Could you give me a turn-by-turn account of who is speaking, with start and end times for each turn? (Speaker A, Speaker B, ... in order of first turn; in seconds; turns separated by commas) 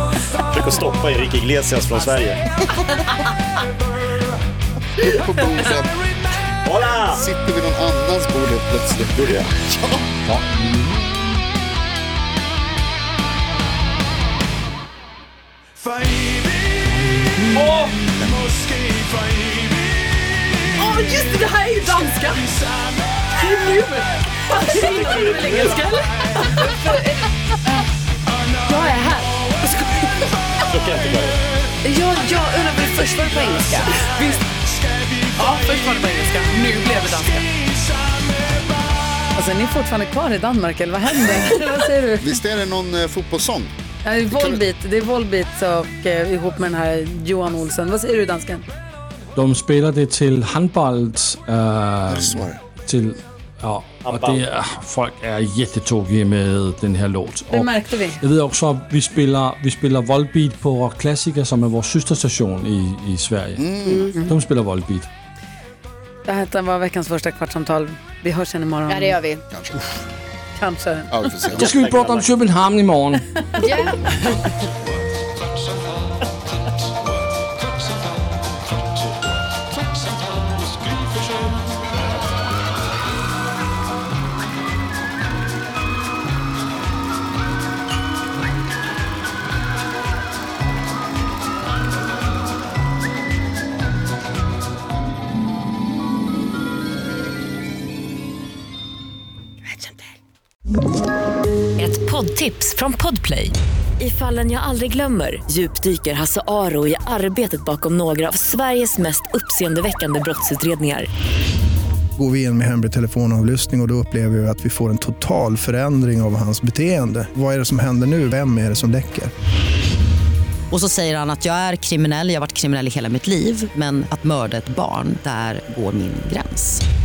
Speaker A: 0.3-2.4, Speaker B: 5.0-6.0, Speaker A: 6.6-7.2, Speaker B: 7.1-10.1, Speaker A: 9.1-9.5, Speaker C: 10.4-10.7, Speaker D: 17.5-17.9, Speaker D: 20.8-22.4, Speaker D: 23.3-26.5, Speaker A: 24.9-25.8, Speaker E: 26.4-27.2, Speaker F: 28.7-29.0, Speaker D: 28.9-30.4, Speaker A: 30.7-31.4, Speaker F: 31.8-34.1, Speaker D: 32.6-34.4, Speaker D: 35.3-37.6, Speaker E: 39.3-42.4, Speaker B: 41.2-41.6, Speaker B: 42.2-43.7, Speaker E: 44.0-48.6, Speaker B: 44.3-44.6, Speaker C: 49.3-65.1, Speaker B: 52.1-52.6, Speaker A: 54.0-54.5, Speaker E: 57.5-58.2, Speaker B: 63.6-64.1, Speaker F: 63.8-64.2, Speaker E: 66.2-69.2, Speaker F: 68.9-69.4, Speaker B: 69.5-69.8, Speaker E: 70.5-71.2, Speaker B: 71.1-72.0, Speaker A: 71.5-72.1, Speaker C: 71.5-73.4, Speaker F: 73.6-74.2, Speaker G: 99.7-100.0, Speaker G: 101.8-111.1, Speaker H: 112.2-119.3, Speaker I: 120.7-126.8